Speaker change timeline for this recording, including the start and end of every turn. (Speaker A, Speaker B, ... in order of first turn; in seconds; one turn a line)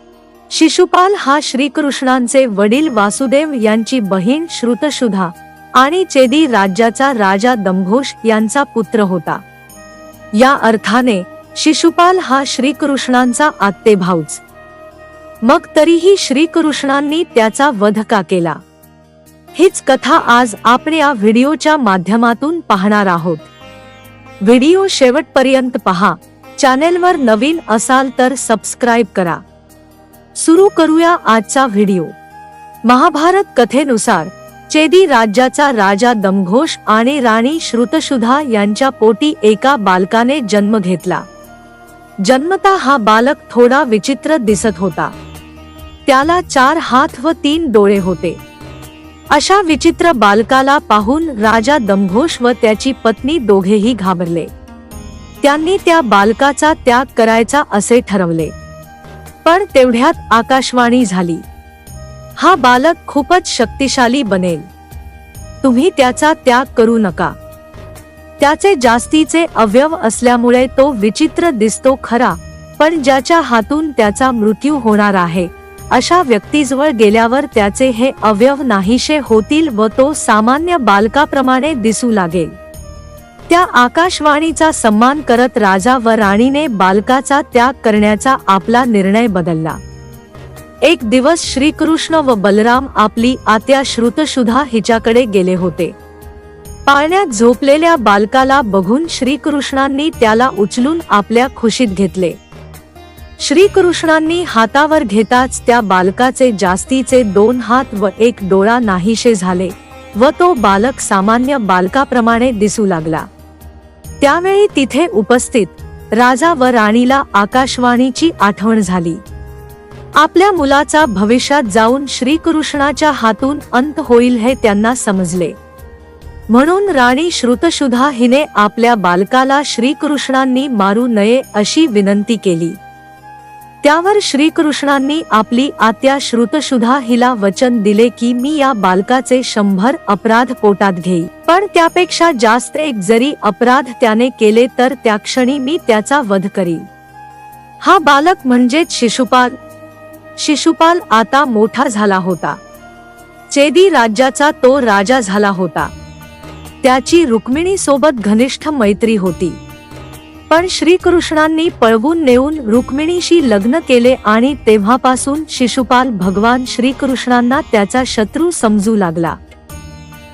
Speaker A: 0.5-9.4
Speaker A: 10.3-14.4
Speaker A: 15.4-18.6
Speaker A: 19.6-23.5
Speaker A: 24.4-29.4
Speaker A: 30.4-32.1
Speaker A: 32.9-41.2
Speaker A: 42.2-45.1
Speaker A: 46.1-48.4
Speaker A: 49.3-54.5
Speaker A: 55.4-58.5
Speaker A: 59.5-61.4
Speaker A: 62.4-64.7
Speaker A: 65.6-67.3
Speaker A: 68.4-82.5
Speaker A: 83.5-89.8
Speaker A: 90.8-95.9
Speaker A: 96.9-102.4
Speaker A: 103.4-113.3
Speaker A: 114.2-119.2
Speaker A: 120.2-125.5
Speaker A: 126.5-132.8
Speaker A: 133.8-146.8
Speaker A: 147.8-149.6
Speaker A: 150.4-152.6
Speaker A: 153.5-155.9
Speaker A: 156.8-159.6
Speaker A: 160.5-169.4